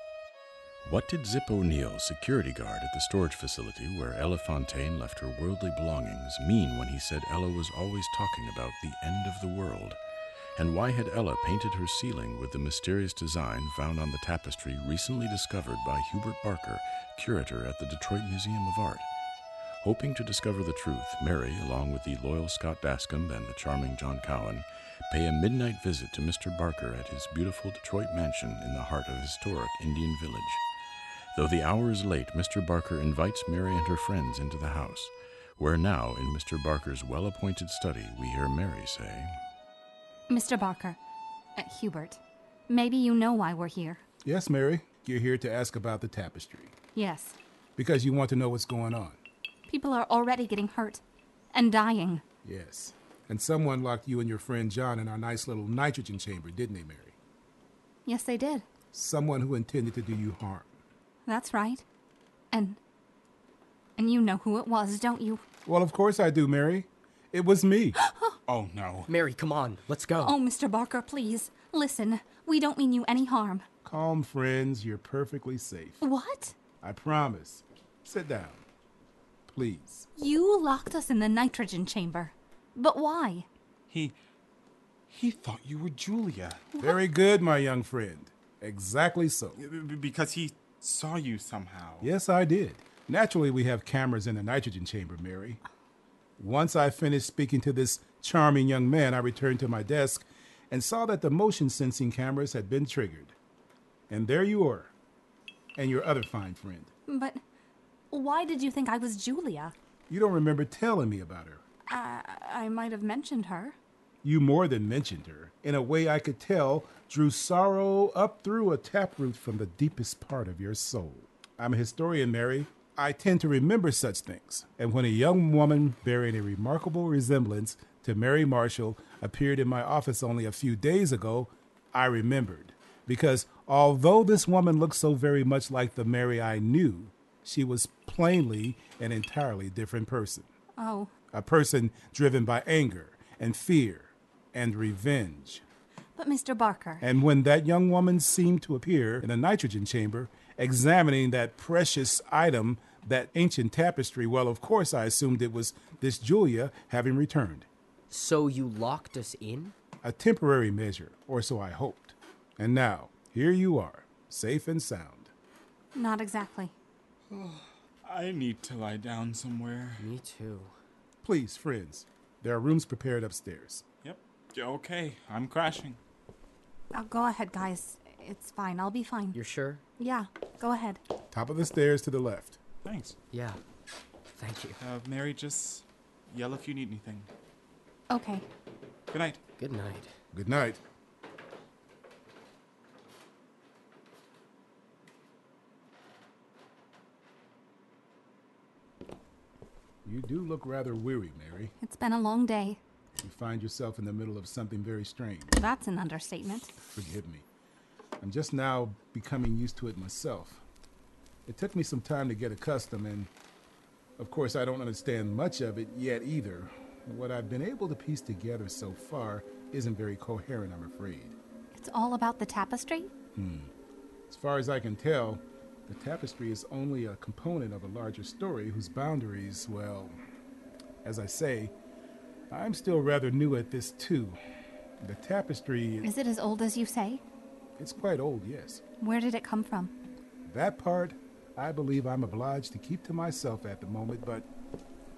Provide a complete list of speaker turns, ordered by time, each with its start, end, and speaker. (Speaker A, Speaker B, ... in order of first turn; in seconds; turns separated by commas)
Speaker A: 0.8-10.0, Speaker A: 10.6-19.1, Speaker A: 19.8-30.6, Speaker A: 31.3-39.3, Speaker B: 40.3-41.0, Speaker B: 41.6-44.0, Speaker C: 44.2-46.7, Speaker B: 47.0-47.4, Speaker C: 47.8-49.2, Speaker B: 49.7-51.0, Speaker B: 51.5-52.2, Speaker C: 52.4-57.2, Speaker B: 58.1-58.6, Speaker C: 58.9-60.8, Speaker B: 61.3-61.8, Speaker B: 62.5-62.8, Speaker B: 64.0-65.4, Speaker C: 65.7-68.0, Speaker B: 68.0-68.4, Speaker D: 68.5-69.1, Speaker E: 69.1-70.3, Speaker B: 70.2-73.7, Speaker C: 73.8-76.0, Speaker B: 76.0-76.6, Speaker C: 76.8-78.7, Speaker C: 79.5-80.1, Speaker B: 80.2-83.5, Speaker D: 83.9-84.2, Speaker D: 85.1-86.7, Speaker B: 86.7-87.0, Speaker C: 86.8-89.6, Speaker D: 89.6-92.1, Speaker C: 92.0-95.6, Speaker C: 96.4-103.4, Speaker C: 104.1-104.9, Speaker C: 105.8-106.9, Speaker B: 107.1-107.4, Speaker B: 108.1-109.7, Speaker C: 110.1-111.6, Speaker B: 111.9-113.8, Speaker C: 114.2-140.5, Speaker B: 140.8-141.1, Speaker C: 141.3-145.6, Speaker B: 146.2-147.1, Speaker C: 147.0-157.7, Speaker E: 158.1-159.8, Speaker C: 160.0-165.3, Speaker B: 165.9-166.8, Speaker D: 167.3-170.1, Speaker E: 170.0-170.7, Speaker C: 171.2-173.8, Speaker D: 174.0-176.0, Speaker B: 176.9-179.4, Speaker E: 179.3-179.8, Speaker B: 180.0-181.0, Speaker C: 181.3-182.6, Speaker D: 182.8-183.2, Speaker E: 183.3-183.6, Speaker E: 184.3-184.8, Speaker D: 184.8-187.3, Speaker B: 188.1-188.5, Speaker D: 189.1-189.4, Speaker E: 189.6-190.1, Speaker C: 190.3-190.8, Speaker C: 200.0-201.7, Speaker B: 201.8-202.8, Speaker C: 203.2-205.6, Speaker B: 205.6-206.8, Speaker C: 206.9-207.5, Speaker C: 208.2-210.6, Speaker C: 211.5-213.3, Speaker C: 214.2-221.4, Speaker B: 221.8-223.1, Speaker C: 223.3-223.7, Speaker C: 224.3-230.2, Speaker C: 231.0-231.7, Speaker C: 232.5-234.4, Speaker C: 235.0-236.1, Speaker B: 236.0-237.2, Speaker C: 237.8-238.8, Speaker B: 239.0-239.9, Speaker C: 240.5-244.5